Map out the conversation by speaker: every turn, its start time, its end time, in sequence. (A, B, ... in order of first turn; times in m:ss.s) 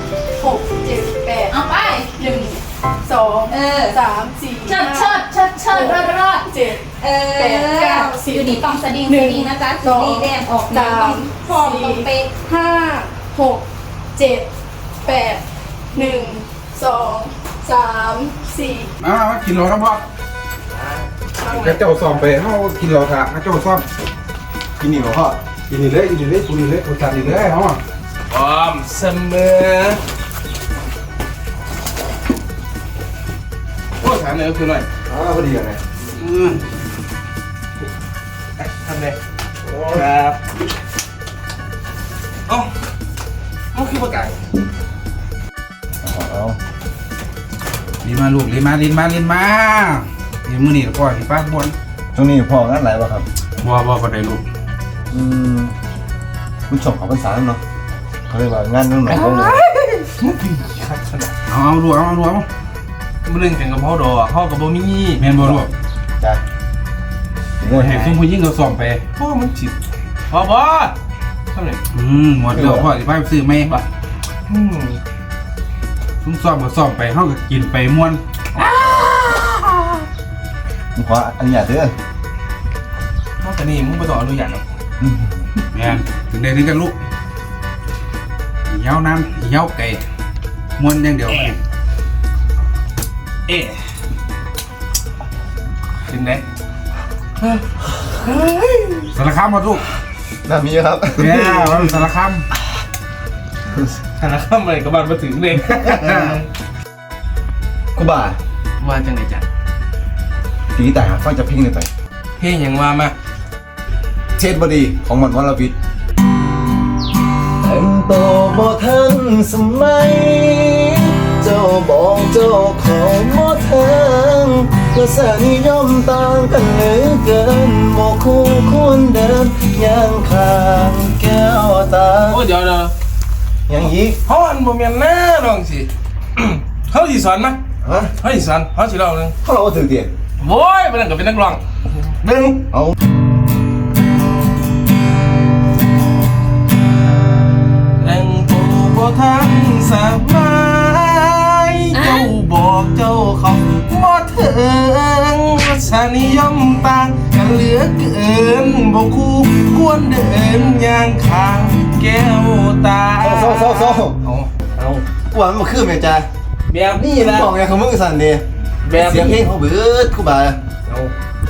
0:00.4-0:01.5 A
0:01.5-0:02.2 B
0:02.2-0:06.8 A
0:03.5-0:04.0 B
0:04.6-0:12.3 B
0:07.4-0:14.5 A
0:15.0-0:18.9 A
0:16.0-0:16.2 B
0:19.0-0:20.0 C
0:20.8-0:21.0 D
0:21.4-0:21.8 A
0:21.5-0:23.8 C
0:24.8-0:25.4 E
0:25.7-0:27.8 C
0:28.3-0:30.0 D
0:34.0-0:34.9 D
0:35.1-0:35.8 E
0:36.1-0:36.6 C
0:38.6-0:40.4 D
0:43.7-0:44.4 D
0:46.0-0:46.6 E
0:48.0-0:51.8 C
0:52.2-0:53.3 E
0:53.6-0:54.4 C
0:55.1-0:55.7 E
0:56.7-0:57.6 E
0:58.3-0:59.6 E
0:59.1-1:01.4 D
1:01.5-1:02.5 C
1:03.3-1:05.2 D
1:05.2-1:05.7 C
1:05.4-1:05.7 E
1:07.6-1:08.2 E
1:07.6-1:09.0 C
1:09.2-1:09.7 D
1:10.3-1:10.9 D
1:11.5-1:11.8 D
1:11.9-1:13.7 C
1:12.5-1:12.9 E
1:14.5-1:15.0 D
1:16.2-1:18.2 C
1:21.0-1:22.0 E
1:23.4-1:24.6 D
1:25.0-1:25.4 E
1:25.7-1:26.9 C
1:28.7-1:30.0 C
1:30.8-1:31.6 C
1:36.1-1:36.4 D
1:37.4-1:39.1 D
1:39.2-1:39.8 C
1:40.4-1:41.5 E
1:41.2-1:42.4 C
1:41.5-1:42.0 D
1:44.2-1:46.4 D
1:48.0-1:48.4 E
1:48.8-1:49.4 D
1:50.8-1:51.9 E
1:52.4-1:53.2 D
1:54.4-1:55.7 E
1:57.6-2:12.4 E
2:12.2-2:12.9 D
2:13.7-2:14.2 E
2:13.8-2:17.6 D
2:17.8-2:18.1 E
2:18.2-2:19.3 D
2:19.4-2:20.1 E
2:20.4-2:22.6 D
2:22.6-2:23.0 E
2:28.0-2:45.0 D
2:43.2-2:44.2 E
2:45.3-2:46.3 E
2:46.7-2:47.5 D
2:47.2-2:48.4 E
2:48.8-2:49.4 D
2:49.0-2:50.6 E
2:50.9-2:51.1 D